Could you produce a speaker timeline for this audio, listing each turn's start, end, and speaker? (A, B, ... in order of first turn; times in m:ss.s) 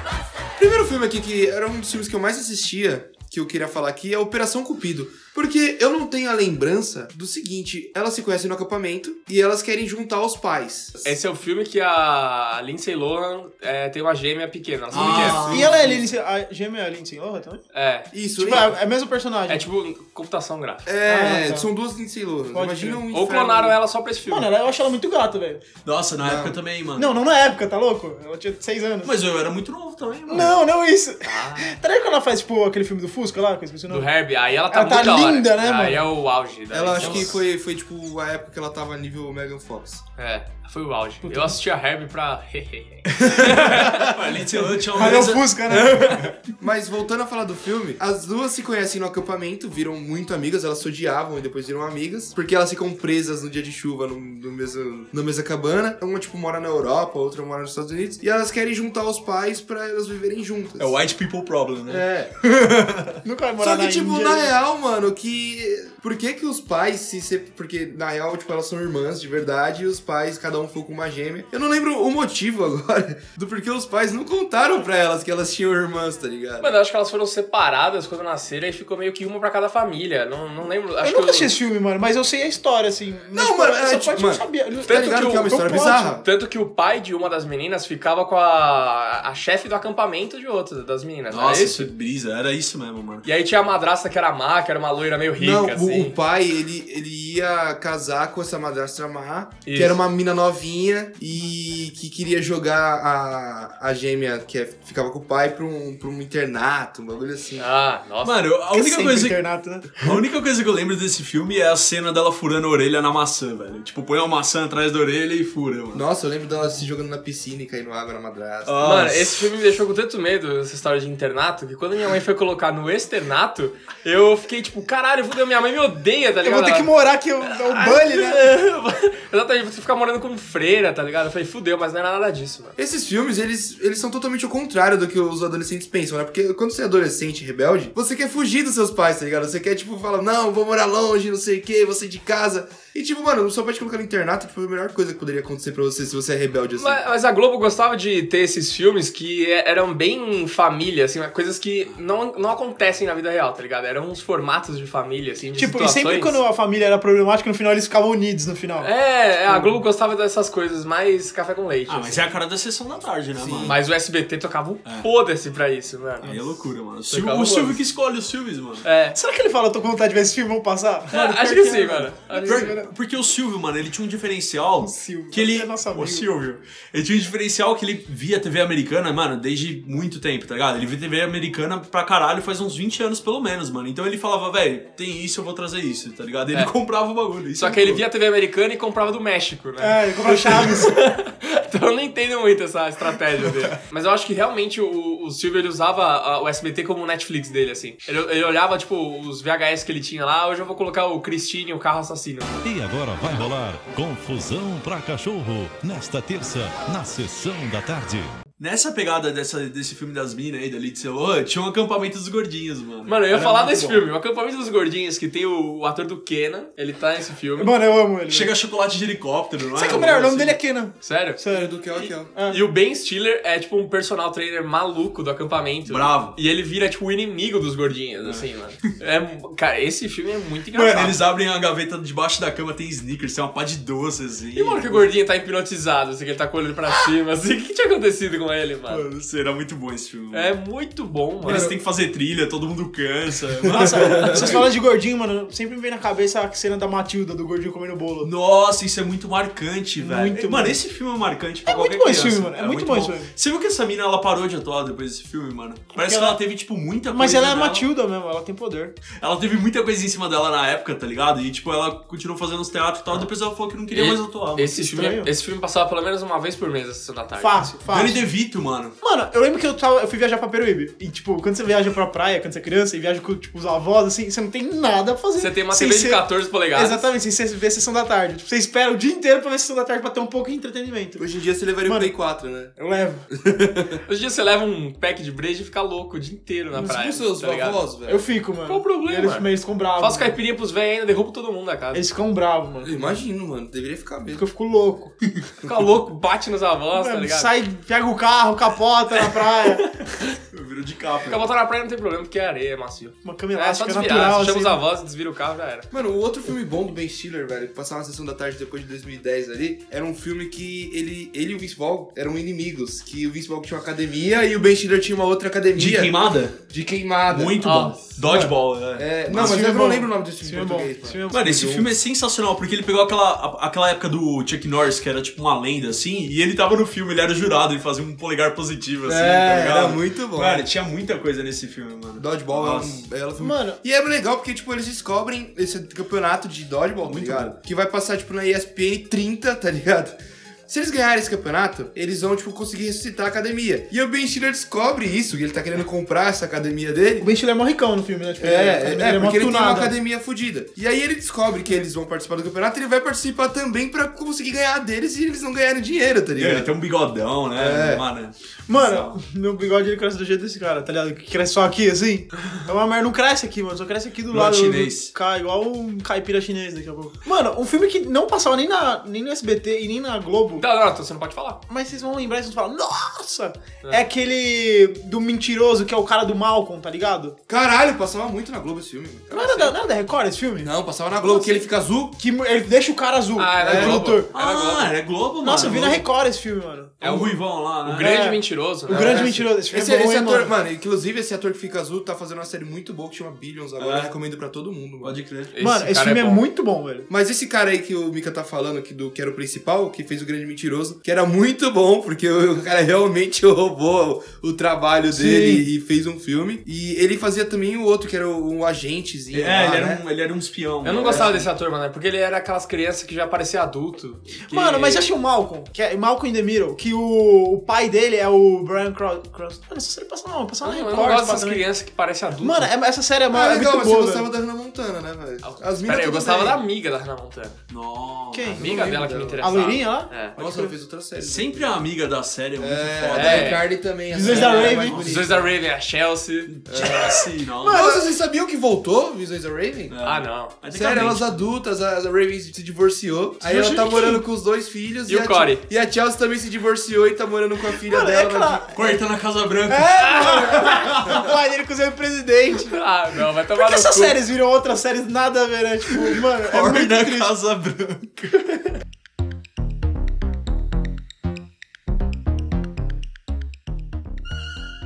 0:00.6-0:11.2 A
0:11.0-0:15.7 B
0:14.9-0:16.0 C
0:15.0-0:15.7 A
0:15.2-0:17.6 D
0:17.7-0:18.6 B
0:18.1-0:18.7 A
0:18.4-0:19.6 D
0:19.5-0:20.9 B
0:20.9-0:23.8 A
0:21.0-0:21.7 D
0:22.5-0:23.0 D
0:23.1-0:24.5 B
0:24.3-0:25.6 D
0:25.8-0:27.1 C
0:26.2-0:26.6 A
0:27.0-0:29.1 D
0:29.0-0:30.5 C
0:30.3-0:34.1 D
0:31.2-0:31.8 B
0:33.9-0:37.4 B
0:34.7-0:36.0 D
0:36.7-0:40.0 A
0:40.2-0:44.1 B
0:41.2-0:41.6 D
0:43.5-0:43.8 D
0:43.7-0:45.8 C
0:44.9-0:46.4 D
0:46.6-1:01.0 A
1:00.8-1:03.1 C
1:01.9-1:02.3 A
1:03.2-1:04.5 D
1:03.6-1:16.8 A
1:16.6-1:21.5 B
1:21.0-1:26.0 D
1:23.3-1:26.3 A
1:24.9-1:31.9 B
1:31.3-1:33.3 C
1:33.2-1:36.2 B
1:35.4-1:47.7 A
1:39.7-1:40.0 B
1:47.6-1:48.4 B
1:48.2-1:49.4 C
1:48.7-1:50.0 D
1:50.0-1:56.0 C
1:55.9-1:59.0 A
1:58.7-1:59.4 C
1:58.8-2:06.9 B
2:06.4-2:08.5 D
2:07.4-2:12.8 B
2:12.8-2:27.0 A
2:26.8-2:36.4 B
2:35.6-2:38.9 D
2:38.8-2:42.3 B
2:39.5-2:39.8 D
2:41.9-2:43.8 C
2:43.3-2:43.8 A
2:43.7-2:46.3 B
2:46.2-2:48.9 C
2:47.1-2:47.8 B
2:48.8-2:49.2 B
2:49.1-2:52.9 D
2:51.1-2:52.8 B
2:52.4-3:08.0 C
2:54.8-2:56.2 D
3:07.6-3:22.6 B
3:09.8-3:11.0 D
3:22.6-3:28.4 E
3:28.6-3:34.0 C
3:33.1-3:37.7 B
3:37.6-3:38.5 D
3:38.3-3:40.6 C
3:39.7-3:41.8 D
3:41.0-3:41.4 B
3:41.5-3:42.3 A
3:42.0-3:51.2 B
3:42.3-3:42.6 D
3:45.9-3:46.4 C
3:48.2-3:48.5 C
3:50.7-3:55.1 C
3:54.6-3:59.1 B
3:58.9-4:00.5 C
4:00.3-4:01.7 B
4:01.4-4:04.7 C
4:01.4-4:01.8 A
4:03.6-4:04.6 A
4:03.7-4:08.3 D
4:08.2-4:17.9 C
4:10.0-4:10.8 D
4:11.7-4:13.3 D
4:16.0-4:16.4 D
4:17.1-4:18.9 D
4:19.2-4:24.7 C
4:23.9-4:27.7 B
4:24.8-4:25.3 D
4:27.4-4:28.3 D
4:27.9-4:29.0 C
4:29.0-4:36.2 D
4:35.4-4:37.0 B
4:36.7-4:41.2 D
4:41.2-4:42.7 A
4:41.9-4:42.1 D
4:42.8-4:43.3 D
4:43.3-4:44.0 A
4:44.1-4:47.8 B
4:46.7-4:48.2 A
4:48.1-4:50.4 D
4:48.7-4:49.5 B
4:50.0-4:52.0 B
4:51.9-4:53.1 D
4:52.8-4:54.4 A
4:54.4-4:55.1 D
4:55.6-4:57.5 B
4:57.0-4:59.9 D
4:59.2-5:00.3 B
5:00.5-5:01.4 C
5:01.3-5:05.9 B
5:03.2-5:04.8 D
5:05.9-5:16.1 A
5:15.8-5:16.6 C
5:16.7-5:17.6 A
5:17.3-5:19.6 C
5:17.6-5:18.1 B
5:18.3-5:18.5 D
5:18.3-5:21.9 A
5:19.3-5:21.7 D
5:21.3-5:33.0 C
5:29.0-5:30.7 A
5:32.2-5:47.3 A
5:33.4-5:33.8 D
5:37.0-5:37.5 C
5:47.2-5:49.9 D
5:48.4-5:56.8 A
5:56.4-5:59.2 C
5:57.5-5:58.1 A
5:58.7-6:10.6 D
6:04.3-6:05.1 C
6:10.6-6:11.6 B
6:11.7-6:17.4 D
6:17.5-6:19.6 A
6:19.3-6:20.7 D
6:19.3-6:19.7 B
6:20.6-6:22.2 A
6:21.2-6:21.6 D
6:22.2-6:24.3 D
6:23.4-6:24.9 B
6:23.6-6:24.1 A
6:24.3-6:26.0 C
6:25.4-6:27.3 D
6:25.6-6:25.9 A
6:27.0-6:28.1 C
6:27.8-6:29.3 B
6:27.9-6:30.5 D
6:28.9-6:35.2 A
6:33.8-6:34.1 C
6:35.0-6:35.5 C
6:35.5-6:36.4 B
6:35.6-6:37.1 D
6:37.1-6:50.0 A
6:45.1-6:45.7 D
6:49.3-6:51.5 C
6:50.8-6:55.1 B
6:50.9-6:51.3 A
6:54.4-7:01.6 D
7:00.6-7:02.7 B
7:02.4-7:04.3 D
7:03.3-7:06.6 A
7:05.4-7:07.6 B
7:07.7-7:08.6 C
7:08.3-7:10.7 D
7:08.5-7:09.6 A
7:08.6-7:10.4 B
7:10.4-7:11.8 A
7:11.2-7:13.6 C
7:12.6-7:15.5 A
7:13.1-7:13.7 B
7:14.1-7:15.0 D
7:14.3-7:15.4 C
7:15.0-7:16.8 B
7:16.5-7:17.9 C
7:16.7-7:19.9 A
7:16.8-7:18.1 D
7:19.9-7:21.4 C
7:20.0-7:20.6 B
7:20.7-7:28.7 A
7:23.4-7:24.2 D
7:25.1-7:25.6 B
7:27.9-7:29.0 D
7:28.7-7:30.4 C
7:29.7-7:32.7 D
7:30.2-7:31.0 B
7:32.6-7:34.2 B
7:33.5-7:37.3 D
7:36.5-7:38.5 C
7:36.5-7:36.9 A